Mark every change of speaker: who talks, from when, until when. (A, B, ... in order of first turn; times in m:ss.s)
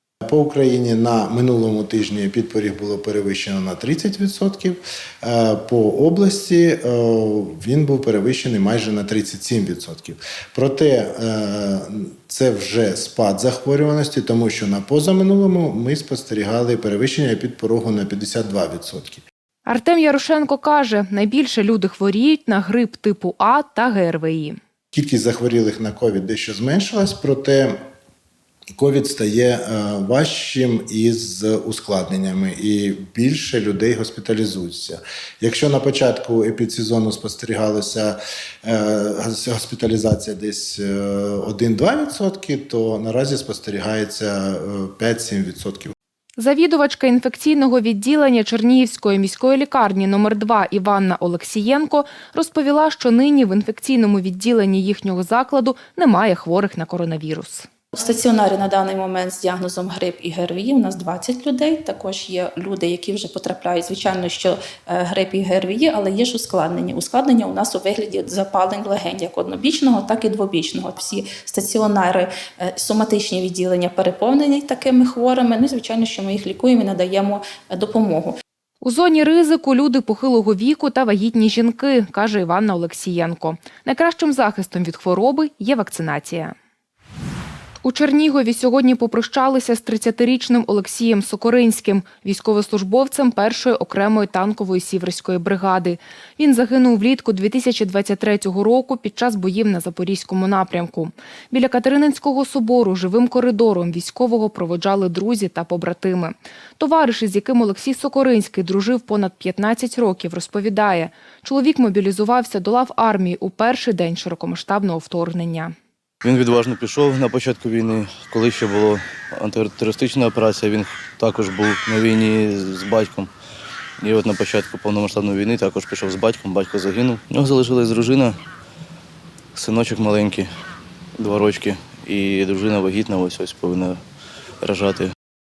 0:00.2-0:19.2 A
0:19.7-0:24.6 B
0:24.9-0:27.8 A
0:28.8-0:45.9 A
0:46.4-0:57.7 B
0:58.0-1:18.4 C
1:18.8-1:26.6 B
1:27.8-1:55.7 B
1:56.2-2:03.3 D
2:04.0-2:08.4 D
2:09.6-2:10.5 D
2:11.2-2:14.0 D
2:14.6-2:15.1 D